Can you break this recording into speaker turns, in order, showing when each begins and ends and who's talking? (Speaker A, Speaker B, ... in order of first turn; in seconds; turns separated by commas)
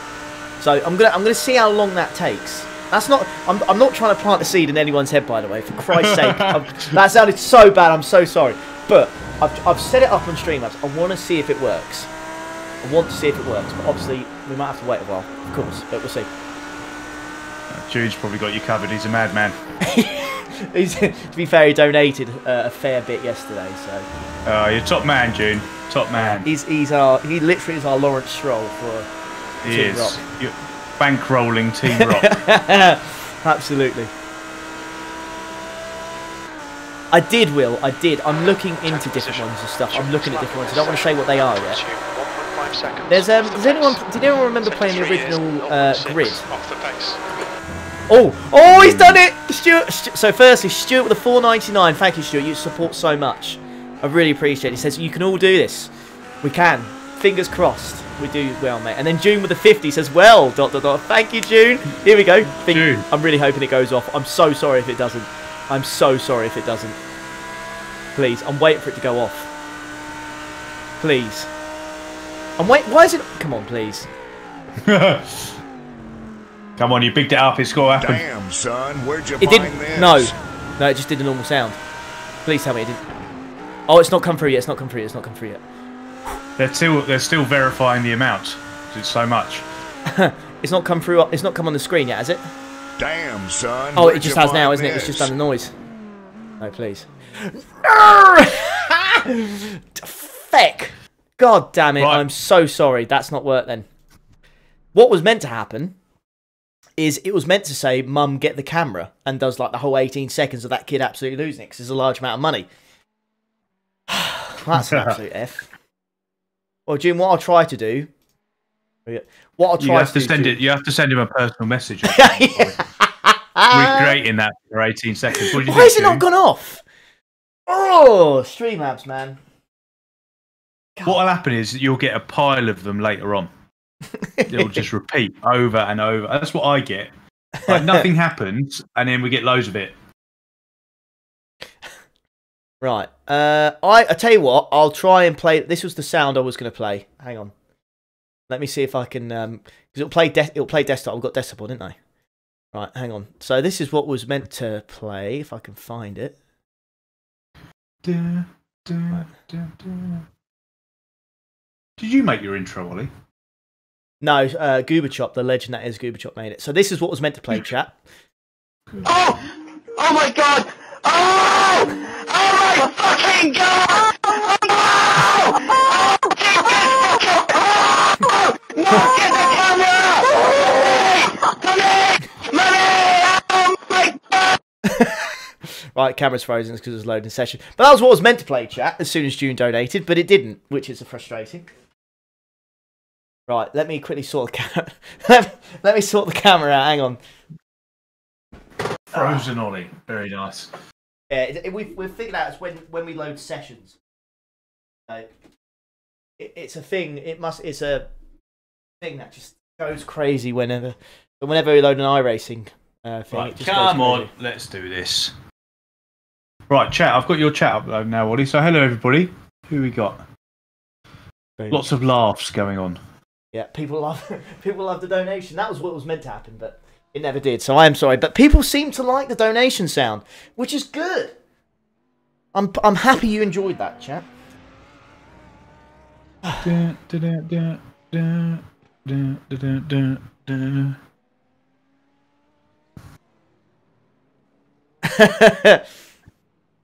Speaker A: 0.6-12.1, Speaker B: 5.9-6.9, Speaker A: 12.8-16.3, Speaker B: 17.7-19.6, Speaker A: 19.8-24.1, Speaker B: 24.4-26.5, Speaker A: 26.1-29.1, Speaker B: 29.6-32.4, Speaker A: 29.6-30.2, Speaker A: 31.9-34.1, Speaker A: 37.1-41.8, Speaker C: 38.8-44.0, Speaker A: 43.1-46.5, Speaker C: 44.6-47.2, Speaker A: 48.1-67.0, Speaker B: 62.6-63.0, Speaker A: 68.2-69.5, Speaker A: 71.0-71.5, Speaker A: 72.6-74.1, Speaker B: 74.8-75.6, Speaker B: 76.8-78.2, Speaker D: 78.0-80.3, Speaker A: 79.4-81.8, Speaker A: 82.4-83.0, Speaker A: 83.9-85.6, Speaker B: 86.6-89.6, Speaker A: 90.0-92.5, Speaker D: 93.0-95.3, Speaker A: 93.9-95.7, Speaker A: 96.6-103.8, Speaker B: 102.0-102.2, Speaker A: 104.9-106.0, Speaker A: 107.0-112.7, Speaker A: 114.1-115.7, Speaker B: 114.7-115.1, Speaker A: 116.8-118.1, Speaker A: 119.0-120.6, Speaker B: 119.8-122.8, Speaker A: 122.0-124.2, Speaker B: 123.7-126.2, Speaker A: 125.3-126.8, Speaker A: 127.7-129.4, Speaker B: 131.0-133.5, Speaker A: 134.4-134.8, Speaker B: 134.5-137.1, Speaker A: 137.6-138.0, Speaker B: 137.7-139.9, Speaker A: 142.8-147.5, Speaker A: 148.5-151.9, Speaker A: 152.7-156.3, Speaker B: 158.0-160.2, Speaker B: 162.0-163.1, Speaker A: 164.2-168.0, Speaker E: 169.0-169.4, Speaker E: 169.9-184.5, Speaker A: 184.8-185.3, Speaker A: 185.9-191.7, Speaker A: 193.5-197.2, Speaker A: 199.1-199.4, Speaker B: 199.1-200.7, Speaker A: 201.3-203.9, Speaker A: 205.1-205.3, Speaker A: 206.4-208.1, Speaker A: 209.0-214.3, Speaker B: 213.3-215.3, Speaker B: 216.7-220.2, Speaker A: 221.6-221.9, Speaker B: 221.7-223.0, Speaker A: 223.5-231.3, Speaker A: 232.5-234.3, Speaker A: 236.4-236.7, Speaker B: 236.6-241.0, Speaker A: 245.0-245.8